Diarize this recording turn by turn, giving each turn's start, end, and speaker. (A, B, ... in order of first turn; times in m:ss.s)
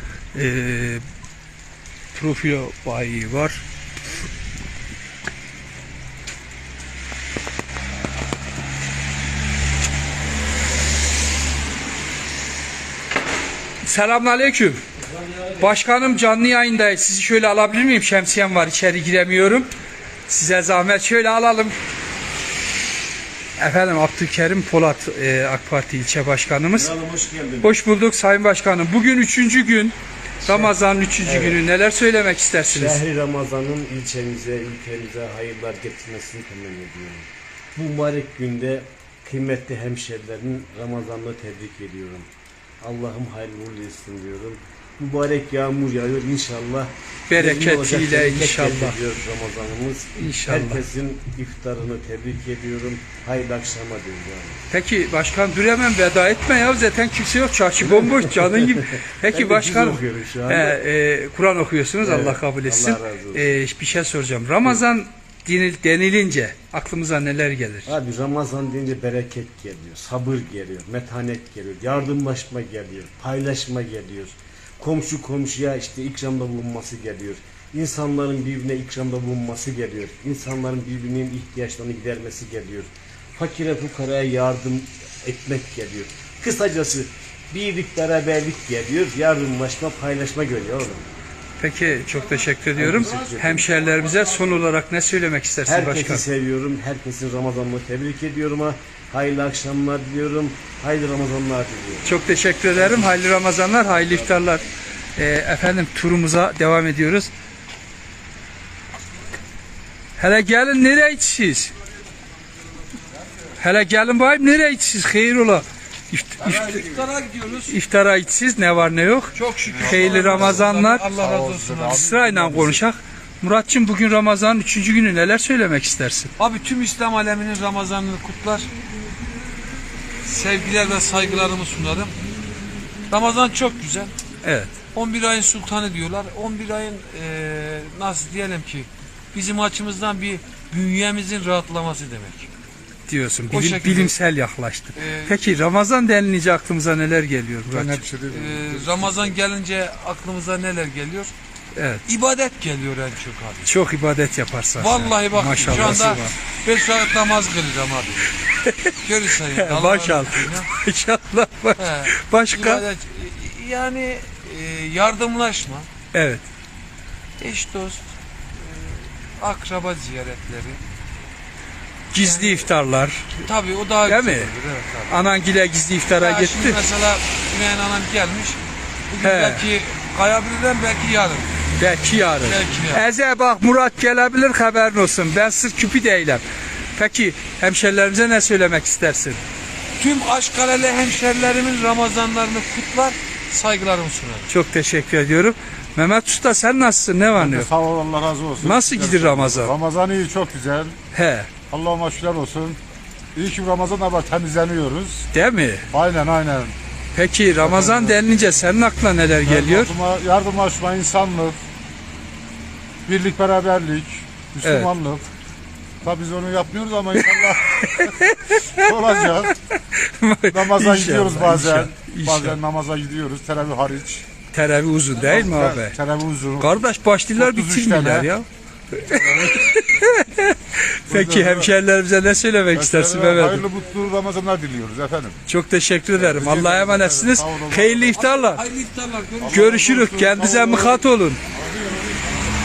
0:00.3-0:01.0 A
0:02.1-0:03.6 A
0:13.8-0:14.8 A
0:15.6-0:19.7 A
0:20.3-0:21.8 A
0:23.6-0:26.9 A
0:26.7-0:27.7 B
0:27.6-0:33.0 A
0:30.4-0:31.6 B
0:32.7-0:42.3 B
0:42.8-0:54.6 B
0:47.3-0:49.0 A
0:50.2-0:50.8 A
0:54.7-1:08.0 A
0:57.9-1:00.8 B
1:02.0-1:03.4 B
1:07.9-1:31.1 B
1:31.6-1:36.2 A
1:32.8-1:33.8 B
1:35.7-1:42.2 B
1:42.0-1:44.6 A
1:42.8-1:43.1 B
1:45.2-1:47.3 A
1:50.2-1:51.7 A
1:53.6-2:01.1 A
1:56.9-1:57.4 C
1:59.3-2:02.2 C
1:59.8-2:00.5 D
2:01.1-2:02.8 D
2:01.9-2:06.3 A
2:06.4-2:08.7 C
2:10.2-2:12.2 C
2:13.1-2:14.1 C
2:14.4-2:14.8 A
2:14.9-2:22.5 C
2:23.1-2:28.0 A
2:23.5-2:24.2 C
2:25.0-2:25.3 C
2:27.7-2:29.3 D
2:28.3-2:31.3 C
2:31.8-2:32.0 A
2:32.1-2:33.7 C
2:33.6-2:36.3 A
2:34.8-2:38.3 C
2:38.6-2:38.9 A
2:39.0-2:40.7 C
2:39.5-2:42.8 A
2:41.8-2:45.9 C
2:46.1-2:46.4 A
2:47.4-2:50.8 C
2:52.1-2:53.3 A
2:52.2-2:52.7 C
2:53.4-2:55.2 C
2:54.0-2:54.5 A
2:55.1-2:56.8 A
2:56.2-2:58.6 C
2:59.1-3:01.5 C
2:59.2-2:59.6 A
3:01.8-3:06.4 A
3:02.4-3:03.0 C
3:06.9-3:09.4 A
3:10.0-3:14.5 C
3:14.5-3:17.7 A
3:17.4-3:21.0 D
3:18.6-3:19.7 A
3:21.1-3:21.5 A
3:21.7-3:22.8 D
3:23.3-3:25.3 D
3:25.3-3:25.8 A
3:25.9-3:26.8 D
3:27.1-3:29.9 A
3:27.6-3:28.2 D
3:29.4-3:31.6 D
3:33.1-3:35.3 D
3:34.6-3:34.9 A
3:36.0-3:38.2 D
3:37.2-3:42.6 A
3:38.7-3:39.6 D
3:40.5-3:44.2 D
3:44.5-3:46.0 A
3:45.3-3:48.3 D
3:46.6-3:53.6 A
3:49.2-3:49.7 D
3:51.1-3:51.7 D
3:52.7-3:55.4 D
3:55.5-3:58.6 A
3:56.1-3:58.2 D
3:58.2-3:59.8 C
3:59.4-4:01.0 D
3:59.5-4:01.4 A
4:01.5-4:02.2 D